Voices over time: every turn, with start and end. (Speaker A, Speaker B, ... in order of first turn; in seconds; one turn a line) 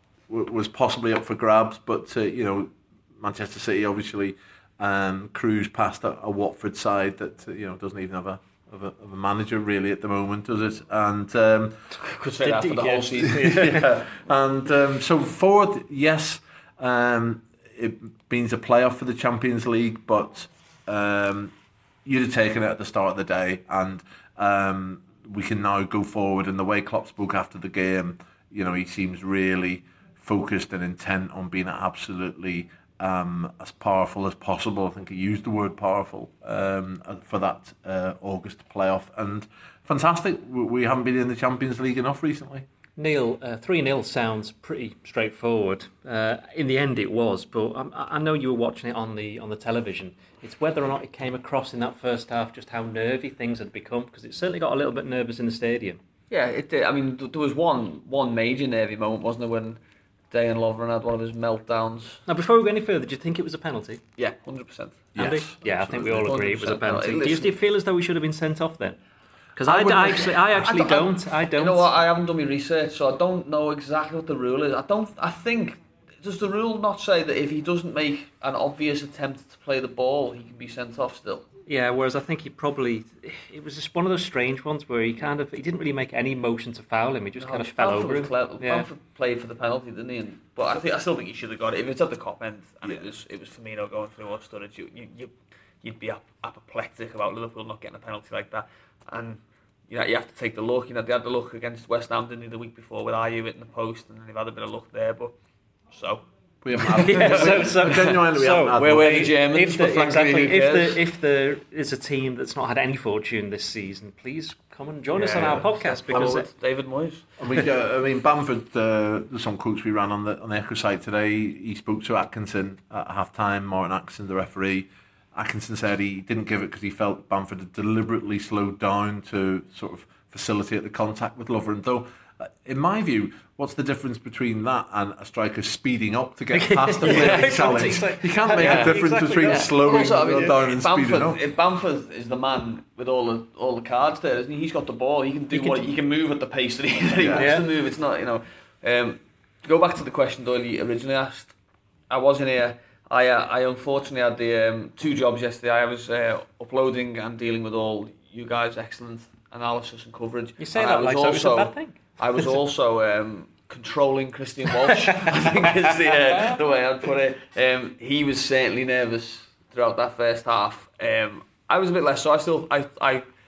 Speaker A: 0.3-11.8
Speaker B: 12.0-13.7
Speaker C: 12.4-13.8
Speaker A: 13.3-21.5
Speaker A: 22.1-42.7
Speaker C: 43.0-56.0
Speaker B: 56.3-62.2
Speaker C: 62.3-64.0
Speaker B: 64.2-65.2
Speaker A: 65.2-66.3
Speaker C: 65.2-69.0
Speaker B: 66.2-67.6
Speaker C: 69.6-71.9
Speaker B: 69.7-81.5
Speaker C: 81.7-88.9
Speaker B: 87.4-105.3
Speaker B: 105.9-106.2
Speaker A: 106.6-109.3
Speaker C: 106.8-116.5
Speaker B: 106.9-111.0
Speaker B: 115.1-117.3
Speaker A: 116.1-116.4
Speaker A: 117.4-141.4
Speaker C: 136.5-140.1
Speaker B: 138.6-151.6
Speaker C: 145.5-145.8
Speaker A: 147.2-147.6
Speaker C: 147.3-147.7
Speaker B: 152.1-173.2
Speaker C: 160.6-162.0
Speaker C: 165.1-166.5